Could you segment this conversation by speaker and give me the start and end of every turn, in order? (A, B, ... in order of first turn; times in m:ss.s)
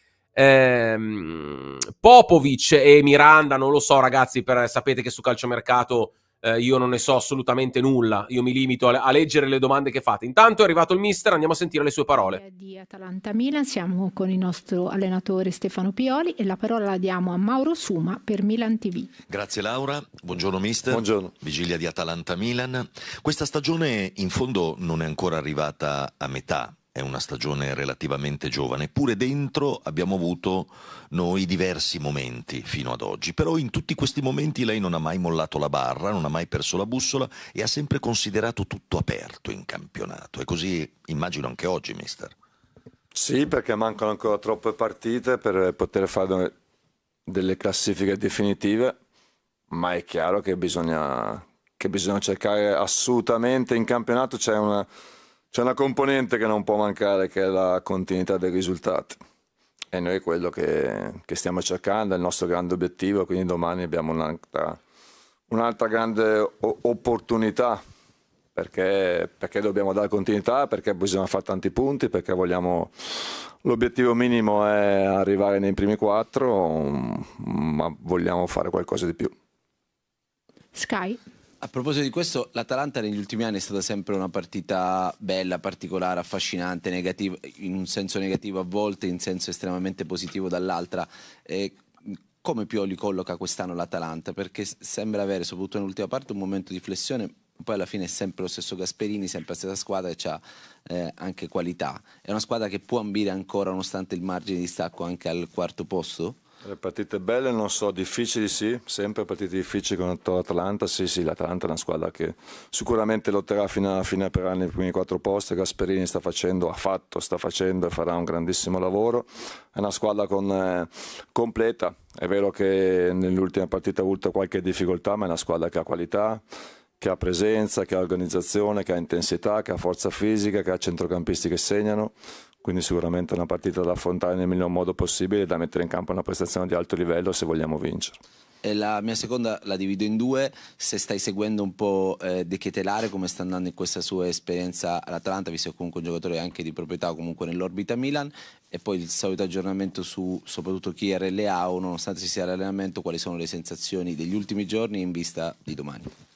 0:00.3-0:12.4 A
0:12.2-0:19.1 B
0:19.3-0:42.4 C
0:20.9-0:21.3 D
0:43.1-0:46.5 D
0:47.3-0:49.0 D
0:49.7-0:54.9 D
0:55.5-0:59.2 D
0:59.9-1:04.8 D
1:05.5-1:07.8 D
1:08.5-1:19.3 D
1:20.7-1:21.2 B
1:21.6-1:46.4 E
1:46.6-2:06.4 D
2:07.0-2:18.2 D
2:18.6-2:36.1 E